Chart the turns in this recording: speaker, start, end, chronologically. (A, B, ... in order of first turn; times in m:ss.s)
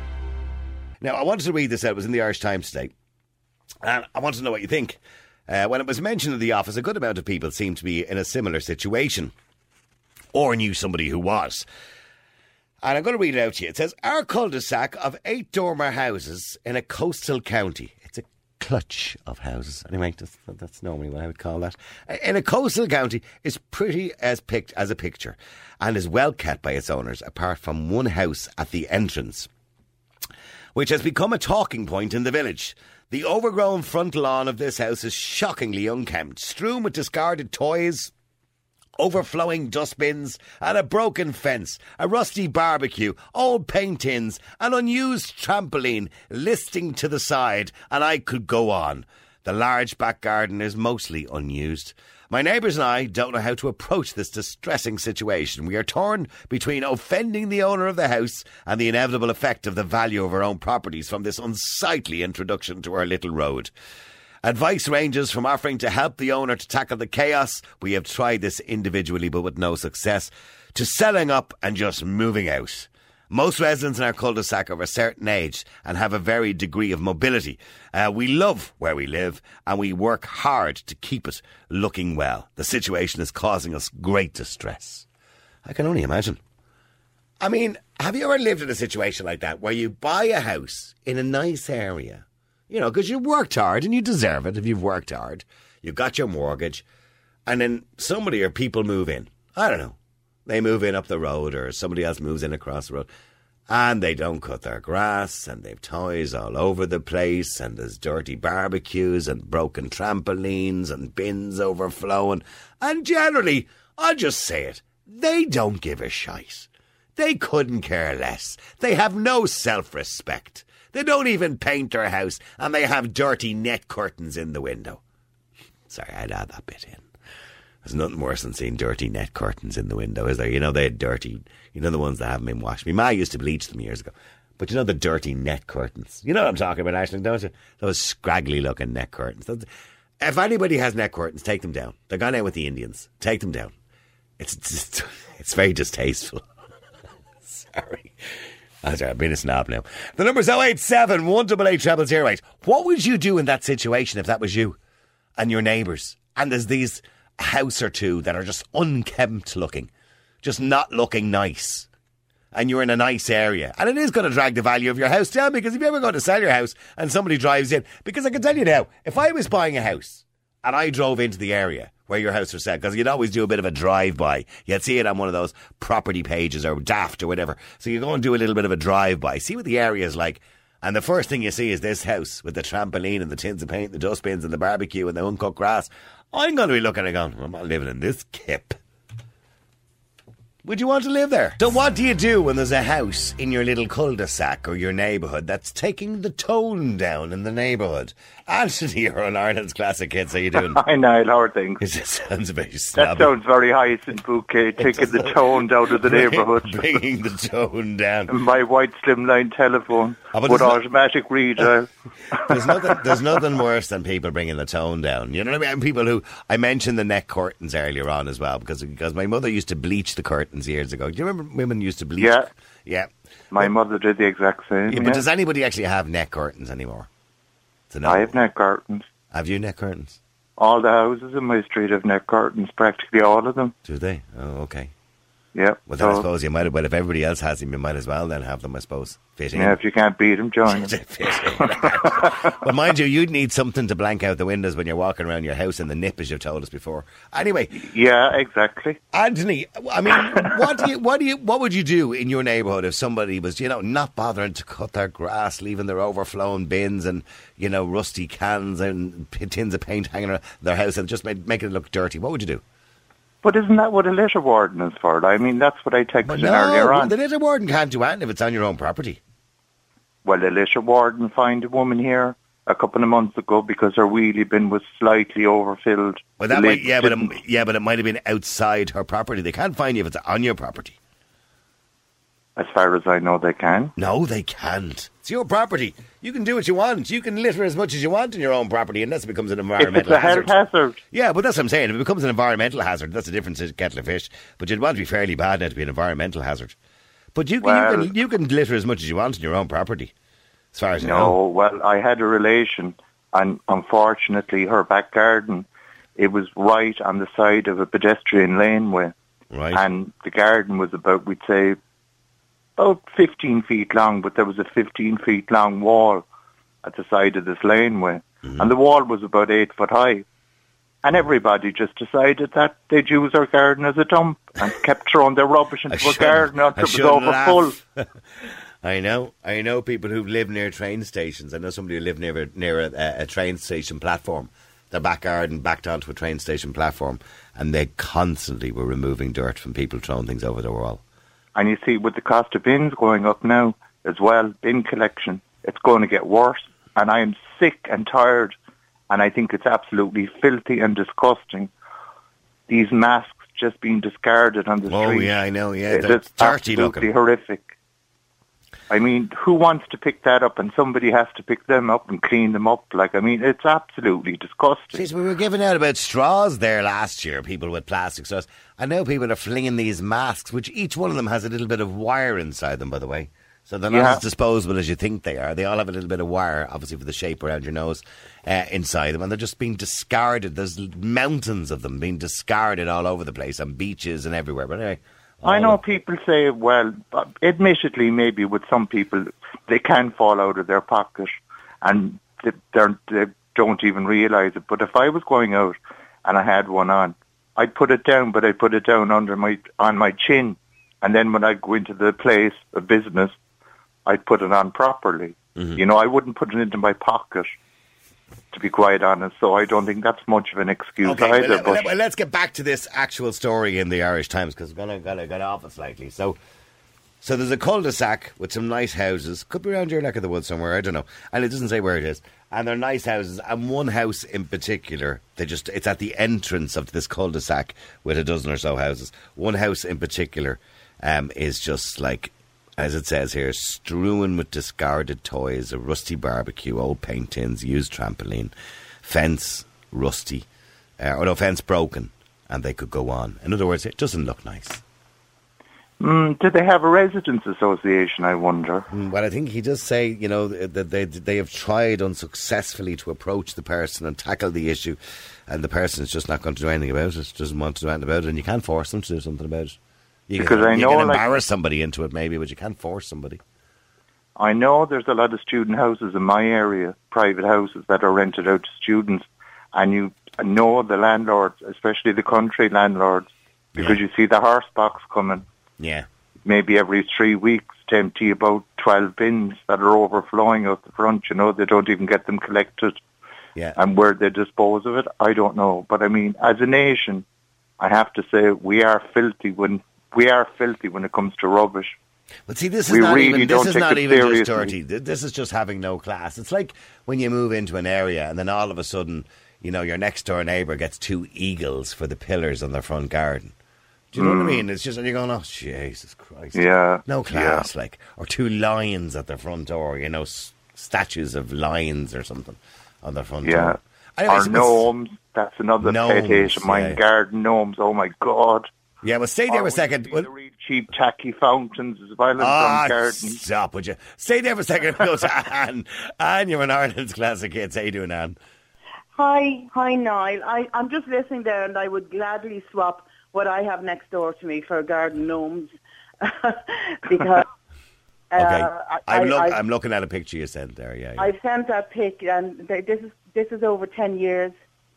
0:01.0-0:02.9 A
0:03.8-0:09.3 A
0:10.3-0:11.6 A
0:12.8-0:29.5 A
0:30.8-0:38.1 A
0:39.0-1:03.7 A
1:04.4-1:25.1 A
1:25.6-1:26.4 A
1:27.4-1:36.8 A
1:37.5-1:43.1 A
1:43.7-2:05.0 A
2:05.9-2:07.1 A
2:07.8-2:19.7 A
2:20.2-2:23.7 A
2:24.4-2:26.5 A
2:27.4-2:34.8 A
2:35.4-2:39.9 A
2:40.4-2:41.9 A
2:42.5-3:08.8 A
3:10.6-3:20.8 A
3:20.6-3:21.8 B
3:21.8-3:23.3 A
3:23.0-3:26.9 B
3:24.8-3:28.4 A
3:28.3-3:33.2 B
3:30.3-3:30.8 A
3:32.4-3:43.7 A
3:42.2-3:42.5 B
3:43.5-3:45.2 B
3:44.9-3:47.1 A
3:47.9-3:48.4 A
3:48.0-3:49.1 B
3:49.3-3:50.2 A
3:50.6-3:53.7 B
3:53.8-3:54.9 A
3:55.5-3:56.2 B
3:55.9-3:59.8 A
3:59.6-4:00.9 B
4:00.7-4:07.8 A
4:01.6-4:02.5 B
4:07.8-4:09.0 B
4:09.1-4:22.6 A
4:10.1-4:10.7 B
4:23.4-4:27.1 B
4:26.2-4:29.2 A
4:30.2-4:37.3 B
4:36.4-4:41.0 A
4:42.6-4:43.9 B
4:44.0-4:50.5 A
4:49.8-4:51.0 B
4:51.1-4:56.8 A
4:57.3-5:00.1 A
4:57.6-4:58.1 B
5:00.7-5:01.4 A
5:01.0-5:05.7 B
5:06.2-5:09.1 B
5:09.5-5:09.8 A
5:09.7-5:11.8 B
5:12.8-5:16.3 B
5:16.8-5:20.2 B
5:18.4-5:18.7 A
5:21.0-5:27.7 B
5:25.9-5:41.0 A
5:41.6-5:48.6 B
5:49.1-5:51.7 B
5:52.7-5:55.4 B
5:54.9-5:57.1 A
5:55.9-5:57.7 B
5:58.9-6:05.0 B
6:04.9-6:25.8 A
6:13.9-6:14.2 B
6:25.4-6:43.4 B
6:44.1-6:47.6 B
6:48.5-6:51.8 B
6:51.0-6:56.4 A
6:57.2-7:18.5 A
7:19.0-7:20.5 A
7:21.0-7:24.8 A
7:26.0-7:28.9 B
7:28.9-7:43.4 A
7:40.4-7:41.3 B
7:44.4-7:55.4 B
7:53.8-7:54.0 A
7:55.8-7:56.1 A
7:56.5-8:03.0 B
8:03.8-8:07.2 B
8:07.8-8:12.0 B
8:12.5-8:23.6 A
8:12.9-8:14.7 B
8:24.1-8:34.9 A
8:24.2-8:24.6 B
8:26.5-8:27.7 B
8:33.4-8:38.7 B
8:35.8-8:37.0 A
8:39.0-8:40.3 A
8:39.5-8:43.4 B
8:42.4-8:48.4 A
8:49.2-8:57.5 C
8:58.3-8:59.6 C
8:58.4-9:01.3 A
9:01.2-9:04.6 C